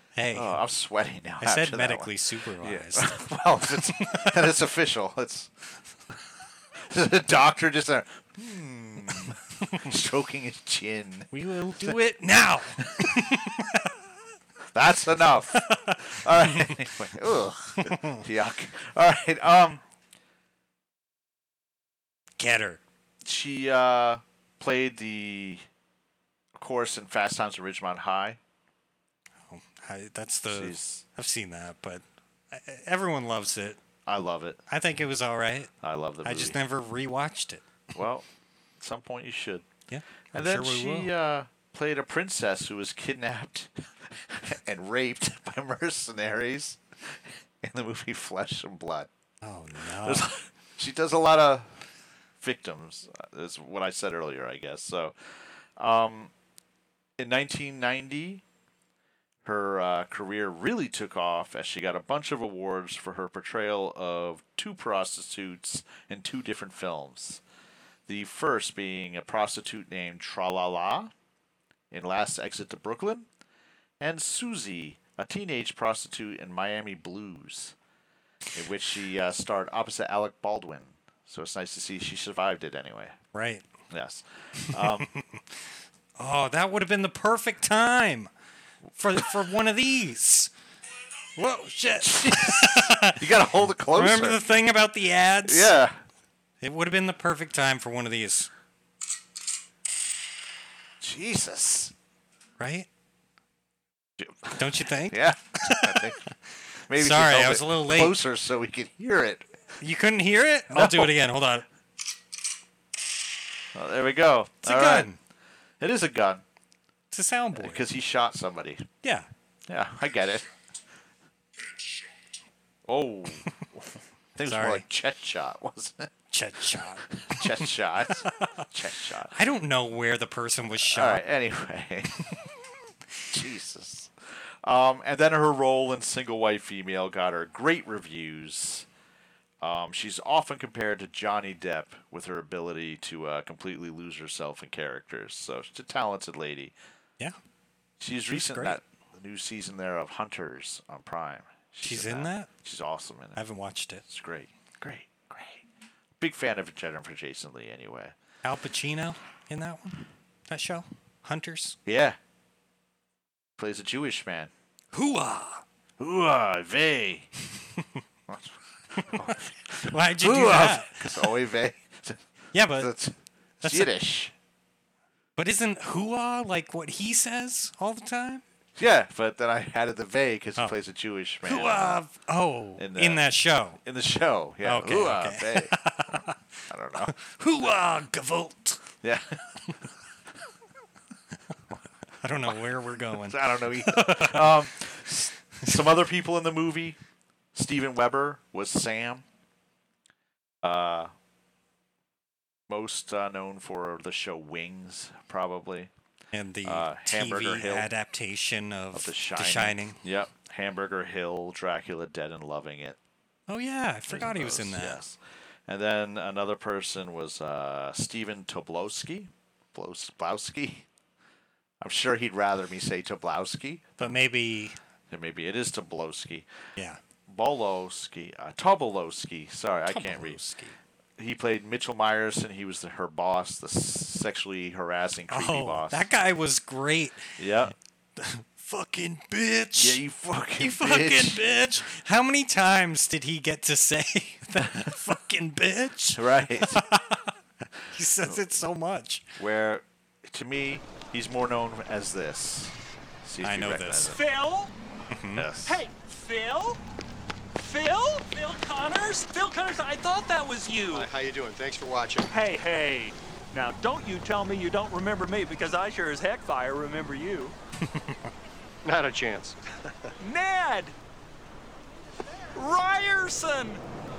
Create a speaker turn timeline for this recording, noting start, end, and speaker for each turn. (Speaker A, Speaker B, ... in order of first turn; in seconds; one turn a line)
Speaker A: 0.1-0.6
Speaker B: 0.3-5.5
Speaker A: 1.4-3.1
Speaker A: 3.8-4.3
Speaker B: 6.9-11.3
Speaker A: 9.2-9.9
Speaker A: 11.3-13.9
Speaker B: 12.8-13.1
Speaker B: 14.7-19.8
Speaker A: 15.5-16.0
Speaker A: 17.8-18.2
Speaker A: 22.4-22.8
Speaker B: 23.2-25.6
Speaker B: 26.6-28.4
Speaker A: 29.5-33.8
Speaker B: 30.5-31.0
Speaker B: 34.1-34.6
Speaker A: 34.7-35.7
Speaker B: 35.8-36.6
Speaker A: 36.2-37.8
Speaker B: 38.0-38.2
Speaker B: 38.8-39.6
Speaker A: 39.9-41.1
Speaker B: 40.3-49.1
Speaker A: 49.4-50.3
Speaker B: 50.0-51.8
Speaker B: 52.4-55.1
Speaker B: 55.8-56.3
Speaker B: 57.2-58.4
Speaker B: 59.5-67.4
Speaker B: 68.1-71.1
Speaker B: 71.9-73.3
Speaker B: 74.0-77.8
Speaker B: 78.5-83.2
Speaker A: 83.3-83.6
Speaker B: 83.9-85.1
Speaker A: 84.7-85.4
Speaker A: 86.2-88.3
Speaker A: 89.0-90.5
Speaker A: 91.4-93.2
Speaker B: 92.0-94.4
Speaker A: 93.9-95.7
Speaker B: 95.5-96.0
Speaker A: 96.6-98.5
Speaker B: 101.0-101.9
Speaker A: 102.6-102.9
Speaker B: 104.2-104.6
Speaker A: 104.5-106.3
Speaker B: 105.1-106.3
Speaker B: 106.9-109.4
Speaker A: 106.9-108.2
Speaker A: 109.8-111.7
Speaker B: 110.7-111.1
Speaker B: 113.7-115.1
Speaker A: 114.6-115.2
Speaker B: 115.8-116.4
Speaker A: 117.1-117.8
Speaker B: 117.5-118.9
Speaker B: 119.7-120.5
Speaker B: 122.9-126.1
Speaker A: 124.5-124.8
Speaker A: 126.3-127.7
Speaker B: 127.1-129.3
Speaker A: 128.2-128.6
Speaker A: 129.3-131.2
Speaker B: 130.8-132.3
Speaker B: 133.3-134.1
Speaker B: 134.6-138.9
Speaker B: 139.6-146.7
Speaker B: 148.0-153.4
Speaker A: 148.3-148.8
Speaker A: 151.8-152.5
Speaker A: 153.4-154.0
Speaker B: 154.1-155.6
Speaker B: 156.2-158.1
Speaker A: 158.4-161.8
Speaker B: 161.9-162.2
Speaker B: 163.6-164.5
Speaker A: 164.9-165.6
Speaker B: 166.0-167.3
Speaker B: 168.3-172.2
Speaker A: 169.0-171.3
Speaker A: 172.5-172.9
Speaker B: 172.8-174.3
Speaker A: 173.6-173.9
Speaker A: 175.4-178.4
Speaker B: 178.8-182.0
Speaker A: 181.4-183.8
Speaker B: 182.8-183.2
Speaker B: 183.8-186.2
Speaker A: 184.6-186.4
Speaker B: 186.7-187.1
Speaker A: 187.0-188.8
Speaker B: 189.0-189.4
Speaker A: 192.2-194.5
Speaker B: 192.5-197.0
Speaker B: 197.5-199.2
Speaker B: 200.6-201.1
Speaker B: 202.7-205.9
Speaker A: 206.3-210.0
Speaker B: 206.6-207.9
Speaker B: 208.9-213.0
Speaker A: 213.5-215.0
Speaker B: 214.1-220.9
Speaker B: 221.8-224.1
Speaker A: 224.0-224.8
Speaker B: 225.1-226.5
Speaker B: 227.3-230.4
Speaker A: 229.9-230.8
Speaker B: 231.2-236.1
Speaker A: 235.3-237.4
Speaker B: 237.4-237.7
Speaker A: 238.2-240.0
Speaker B: 239.8-241.4
Speaker A: 240.6-247.3
Speaker B: 246.1-246.8
Speaker A: 247.9-249.3
Speaker B: 249.4-254.2
Speaker A: 253.4-254.2
Speaker C: 254.1-254.7
Speaker A: 255.1-255.4
Speaker B: 255.4-255.8
Speaker C: 255.6-256.8
Speaker C: 257.6-261.1
Speaker D: 260.9-262.3
Speaker C: 262.3-267.5
Speaker D: 268.8-269.6
Speaker C: 270.2-270.9
Speaker C: 272.6-273.8